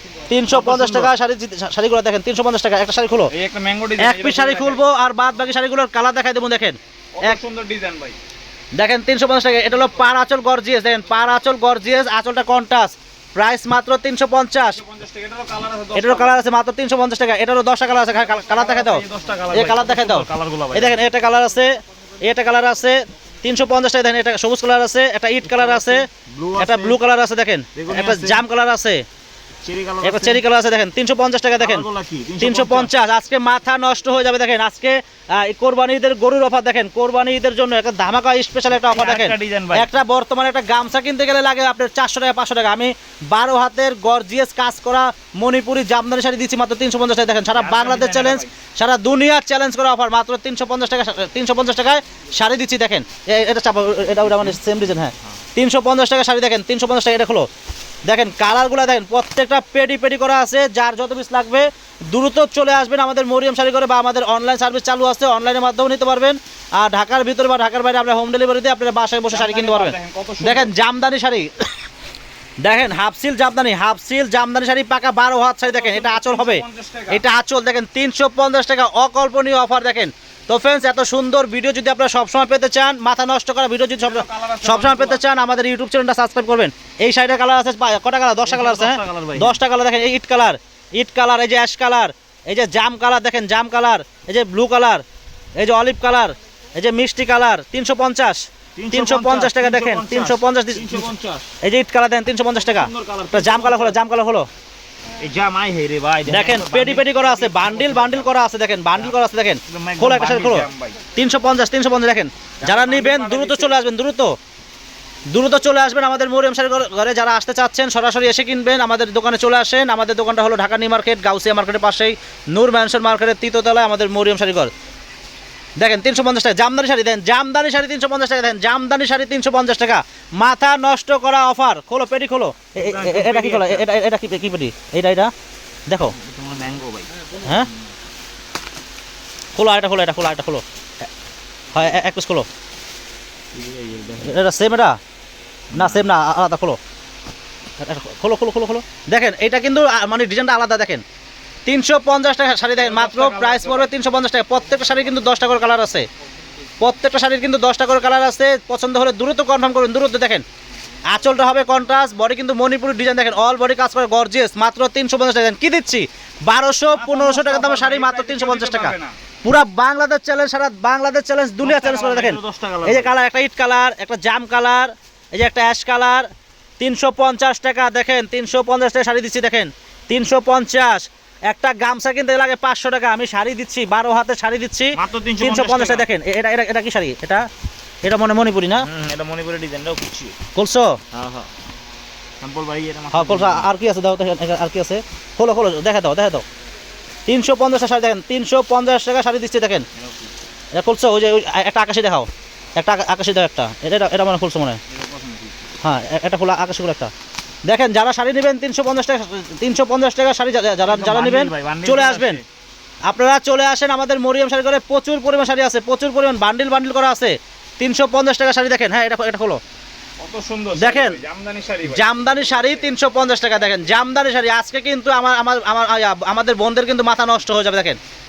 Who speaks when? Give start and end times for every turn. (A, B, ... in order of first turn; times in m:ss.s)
0:00.3-0:03.3 A
0:00.4-0:01.1 B
0:03.3-0:04.8 B
0:04.0-0:07.4 A
0:07.2-0:08.2 B
0:08.8-0:14.8 A
0:14.7-0:16.4 B
0:15.9-0:26.0 A
0:18.1-0:21.0 B
0:25.4-0:27.0 B
0:26.6-0:29.0 A
0:27.7-0:28.4 B
0:29.6-0:30.4 B
0:30.0-0:31.8 A
0:31.6-0:32.9 B
0:32.4-0:57.4 A
0:38.7-0:39.9 B
0:47.5-0:48.5 B
0:58.1-1:11.5 A
1:09.3-1:10.7 B
1:12.6-1:35.0 A
1:15.6-1:17.2 B
1:24.0-1:25.2 B
1:28.4-1:29.6 B
1:35.6-1:41.1 A
1:38.8-1:41.5 B
1:41.6-1:44.5 A
1:42.6-1:44.0 B
1:45.2-1:48.3 B
1:46.3-1:54.3 A
1:49.7-1:51.0 B
1:52.6-1:53.8 B
1:55.3-2:04.7 A
2:05.8-2:15.3 A
2:12.8-2:13.9 B
2:15.9-2:16.2 A
2:16.1-2:17.8 B
2:17.4-2:17.7 A
2:19.6-2:20.6 A
2:21.7-2:22.4 A
2:23.5-2:24.4 B
2:24.2-2:25.0 A
2:25.7-2:26.1 B
2:25.7-2:26.8 A
2:27.8-2:31.0 A
2:31.6-2:36.0 A
2:32.8-2:33.9 B
2:36.8-2:40.4 A
2:41.1-2:56.3 A
2:46.9-2:49.1 B
2:51.6-2:53.1 B
2:56.8-3:07.4 A
3:05.0-3:06.1 B
3:08.0-3:08.8 A
3:08.8-3:10.4 B
3:10.5-3:11.0 A
3:11.1-3:11.5 B
3:12.4-3:13.7 B
3:13.1-3:16.4 A
3:17.3-3:19.8 A
3:20.0-3:20.3 B
3:20.7-3:24.8 A
3:24.9-3:25.6 B
3:25.8-3:27.1 A
3:27.7-3:32.4 A
3:30.8-3:32.4 B
3:33.1-3:39.6 A
3:40.2-3:42.8 B
3:40.8-3:41.2 A
3:41.9-3:48.0 A